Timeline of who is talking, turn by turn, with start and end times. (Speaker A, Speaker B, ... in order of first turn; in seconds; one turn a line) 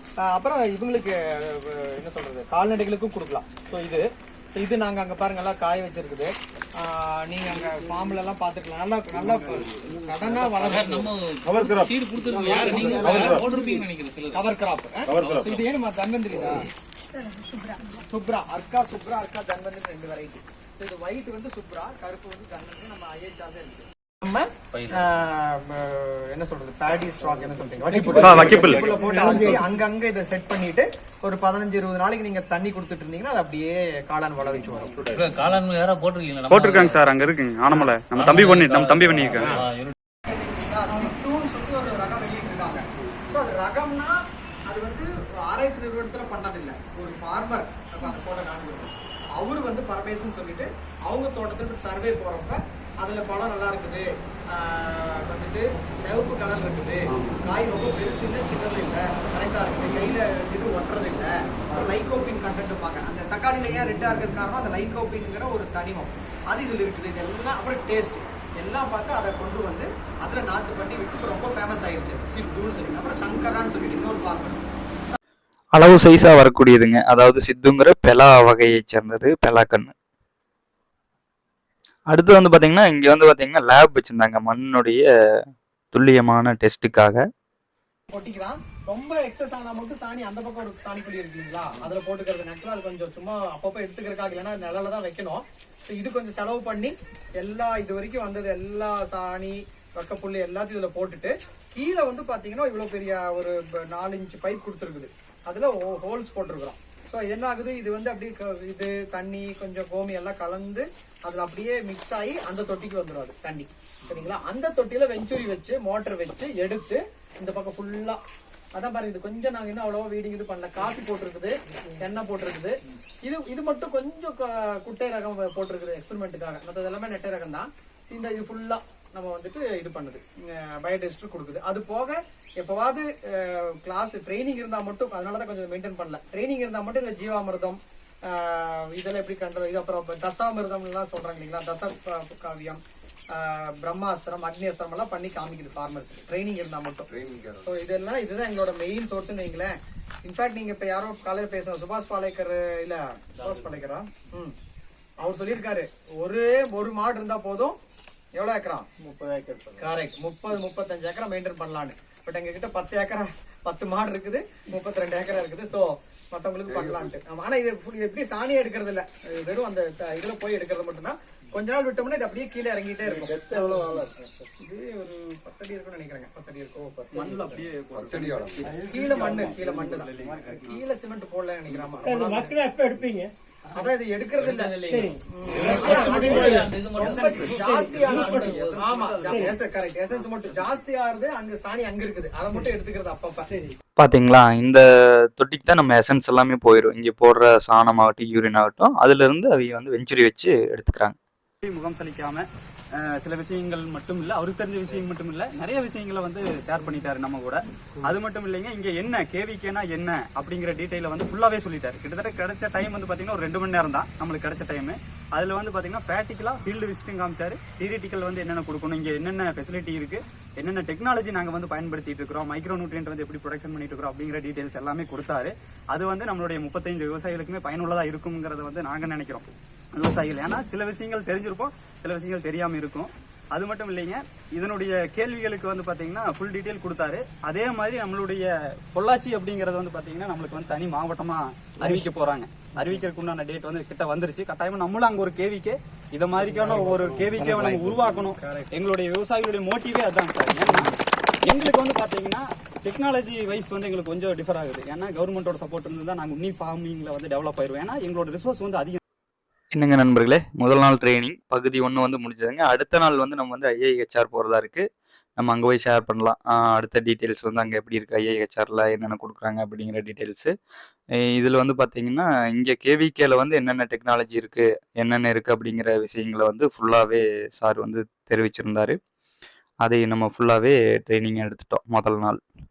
Speaker A: 0.2-11.1
Speaker B: 10.6-14.4
Speaker A: 12.2-13.6
Speaker A: 14.3-35.0
Speaker B: 15.1-15.6
Speaker B: 24.7-25.1
Speaker C: 28.0-29.6
Speaker D: 28.1-29.0
Speaker B: 35.1-37.0
Speaker D: 36.5-39.6
Speaker B: 38.1-39.9
Speaker A: 40.2-74.6
Speaker E: 75.7-79.9
Speaker E: 82.1-85.4
Speaker E: 85.9-87.2
Speaker A: 88.1-118.2
Speaker A: 118.7-142.8
Speaker A: 143.3-147.1
Speaker F: 147.1-147.6
Speaker A: 147.6-154.5
Speaker B: 153.4-153.8
Speaker A: 155.2-157.8
Speaker A: 158.3-158.9
Speaker F: 159.0-159.8
Speaker A: 159.8-174.0
Speaker F: 166.7-167.0
Speaker F: 173.1-174.4
Speaker A: 174.6-177.1
Speaker D: 177.1-180.8
Speaker F: 177.9-180.4
Speaker A: 178.7-182.6
Speaker C: 182.0-183.3
Speaker A: 183.7-193.5
Speaker B: 184.4-187.4
Speaker C: 184.9-185.2
Speaker D: 185.9-189.5
Speaker C: 186.0-186.7
Speaker C: 187.5-188.5
Speaker B: 188.0-188.8
Speaker C: 189.2-189.5
Speaker C: 193.5-193.7
Speaker E: 194.0-194.8
Speaker E: 195.3-201.2
Speaker D: 201.6-259.0
Speaker F: 246.4-248.2
Speaker E: 259.7-264.9
Speaker E: 265.4-270.5
Speaker E: 271.3-278.9
Speaker E: 279.8-282.4